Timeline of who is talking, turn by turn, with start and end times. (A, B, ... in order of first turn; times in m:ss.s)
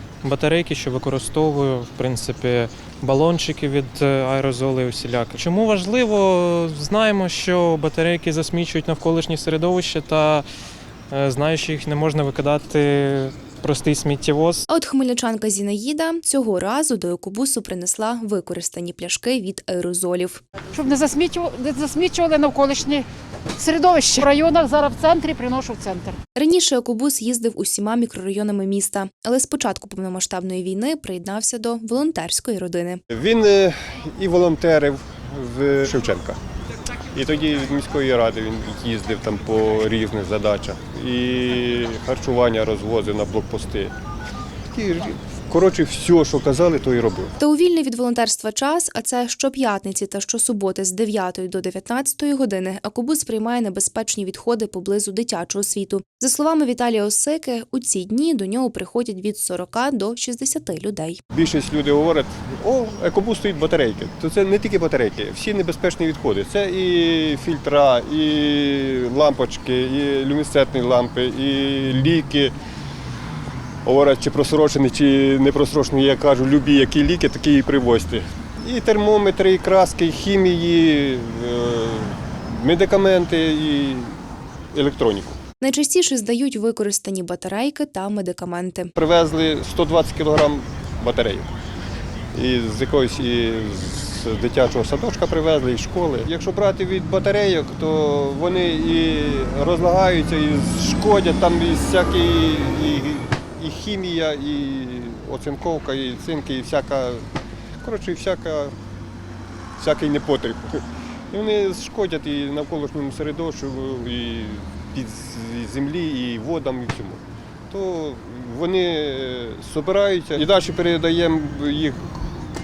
0:00.2-0:10.4 A
0:11.1-0:14.6 A
0:14.7-0:20.4 B
0:20.7-0:26.2 C
0:26.4-0:33.0 B
0:33.1-0:36.4 D
0:37.1-0:43.9 D
0:44.7-0:47.4 D
0:47.4-1:01.2 B
1:01.3-1:12.5 D
1:13.8-1:24.2 D
1:24.7-1:25.4 D
1:25.6-1:28.9 B
1:29.0-1:31.5 D
1:32.3-1:47.3 D
1:47.8-1:48.8 D
1:49.8-2:02.2 D